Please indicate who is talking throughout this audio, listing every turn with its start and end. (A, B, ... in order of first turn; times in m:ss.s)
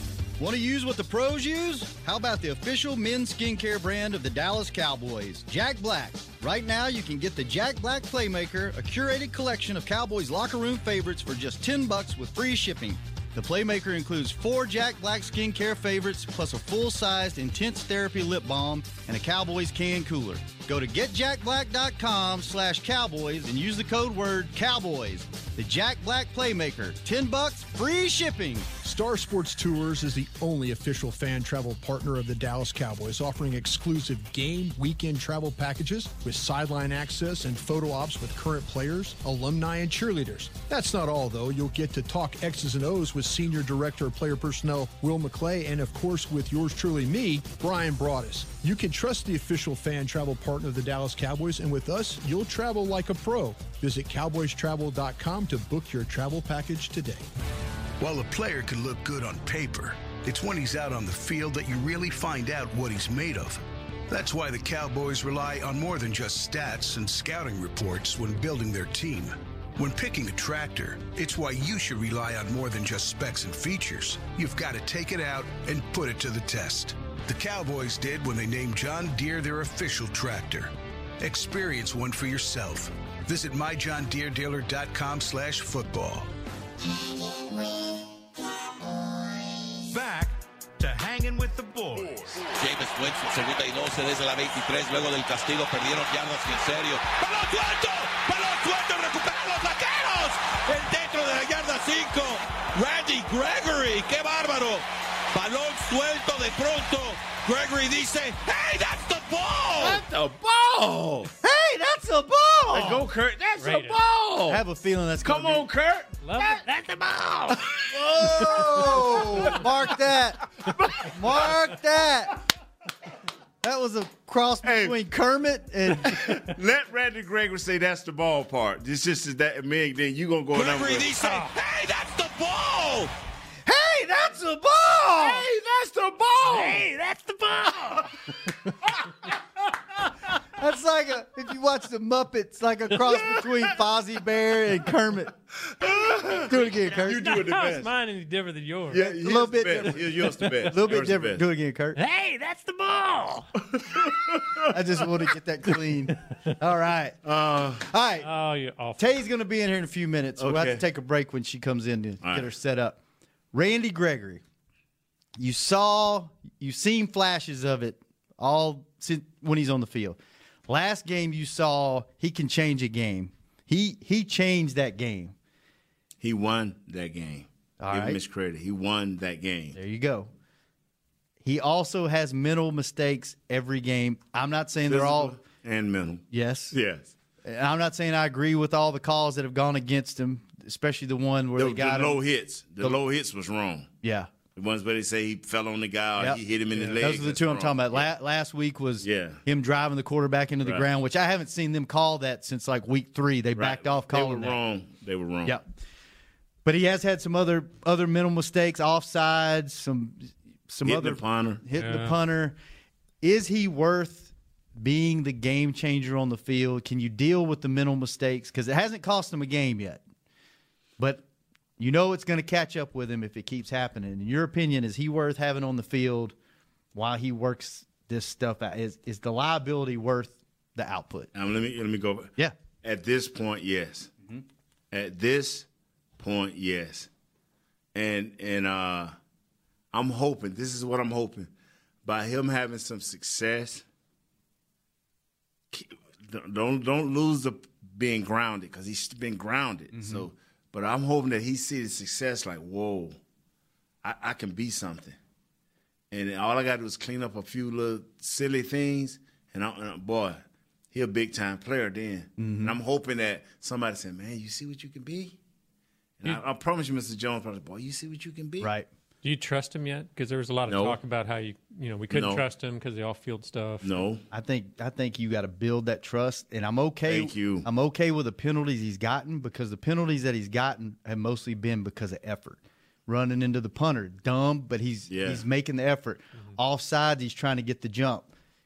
0:00.4-0:28.7 A
0:28.8-0:57.3 B
0:58.0-1:26.3 C
1:29.9-1:32.5 D
1:32.5-1:50.0 E
1:49.8-1:51.3 F
1:51.4-1:53.0 A
1:52.7-1:54.6 F
1:53.6-1:54.0 G
1:54.5-1:55.7 A
1:55.2-1:56.3 F
1:56.2-1:56.7 G
1:56.6-1:57.3 E
1:57.8-1:59.7 F
1:58.2-2:00.4 A
2:00.7-2:01.5 F
2:01.0-2:02.4 A
2:03.6-2:06.4 A
2:04.6-2:05.0 F
2:06.0-2:11.4 F
2:10.5-2:13.1 E
2:13.7-2:15.4 A
2:15.2-2:16.9 F
2:16.6-2:17.8 E
2:20.6-2:25.3 A
2:25.7-2:27.9 F
2:26.5-2:27.3 A
2:27.2-2:29.1 G
2:28.9-2:31.4 F
2:29.0-2:30.1 A
2:30.6-2:32.0 A
2:32.0-2:33.4 E
2:33.7-2:34.7 F
2:34.7-2:37.2 A
2:37.2-2:37.9 F
2:37.9-2:38.3 A
2:38.2-2:39.2 G
2:39.0-2:43.0 A
2:40.4-2:40.8 F
2:42.2-2:42.5 F
2:43.5-2:44.4 A
2:45.4-2:55.3 A
2:56.2-2:59.8 F
2:57.8-2:58.2 A
2:59.8-3:00.3 A
3:01.4-3:05.4 A
3:04.9-3:07.1 F
3:06.3-3:06.8 A
3:07.4-3:12.2 A
3:11.6-3:13.9 F
3:14.0-3:14.3 A
3:14.6-3:18.1 F
3:16.2-3:24.6 A
3:19.0-3:19.4 F
3:23.6-3:25.6 F
3:26.6-3:32.6 A
3:30.8-3:31.6 F
3:31.8-3:32.2 G
3:33.2-3:40.0 A
3:41.0-3:41.2 A
3:41.8-3:46.4 A
3:47.0-3:51.3 A
3:51.3-3:52.3 F
3:52.8-3:54.1 F
3:54.9-3:55.7 F
3:56.2-3:57.1 F
3:58.0-3:59.1 F
3:59.9-4:01.5 F
4:02.0-4:03.8 F
4:05.7-4:13.2 F
4:09.9-4:10.3 A
4:14.0-4:15.2 F
4:16.1-4:25.4 F
4:22.4-4:22.8 A
4:26.2-4:28.7 F
4:28.6-4:28.9 A
4:29.2-4:33.9 G
4:30.7-4:31.0 F
4:32.1-4:32.4 F
4:33.8-4:34.2 F
4:34.3-4:48.3 A
4:37.1-4:37.7 F
4:45.1-4:45.4 F